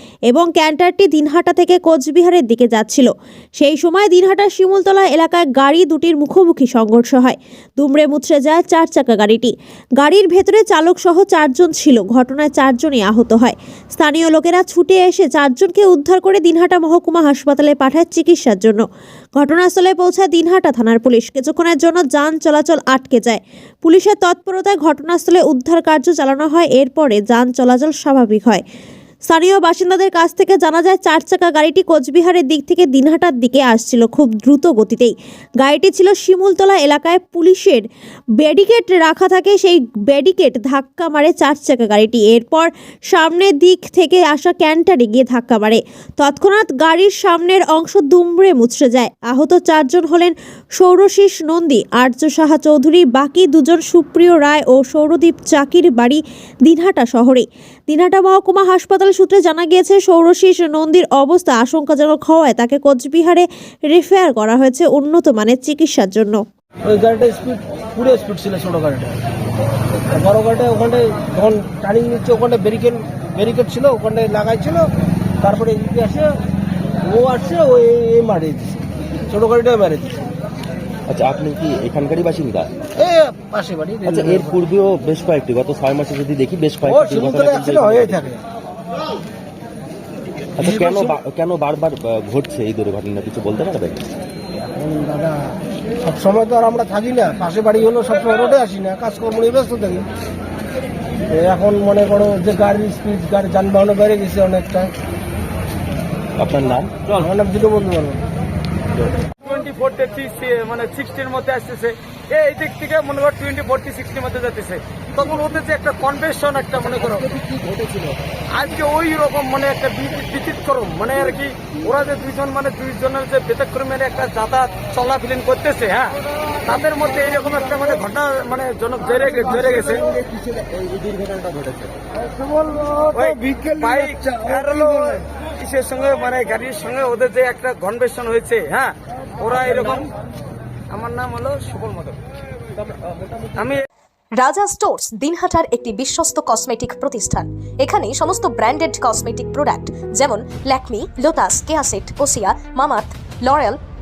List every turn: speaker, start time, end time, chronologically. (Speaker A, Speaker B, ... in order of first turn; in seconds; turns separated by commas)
Speaker A: 0.3-18.8, Speaker A: 19.4-28.6, Speaker A: 29.3-37.9, Speaker A: 38.4-66.4, Speaker B: 66.8-69.2, Speaker B: 70.1-74.9, Speaker B: 75.4-76.3, Speaker B: 77.0-80.2, Speaker C: 81.1-82.8, Speaker B: 83.0-84.5, Speaker C: 84.0-88.3, Speaker B: 86.9-88.4, Speaker C: 90.6-94.1, Speaker B: 90.6-91.1, Speaker B: 94.8-95.5, Speaker B: 96.0-100.1, Speaker B: 101.3-104.9, Speaker C: 106.4-107.2, Speaker B: 107.2-108.2, Speaker D: 109.4-117.3, Speaker D: 118.5-130.1, Speaker C: 131.1-131.7, Speaker D: 133.1-140.1, Speaker D: 140.9-142.2, Speaker D: 143.5-143.8, Speaker E: 144.4-153.8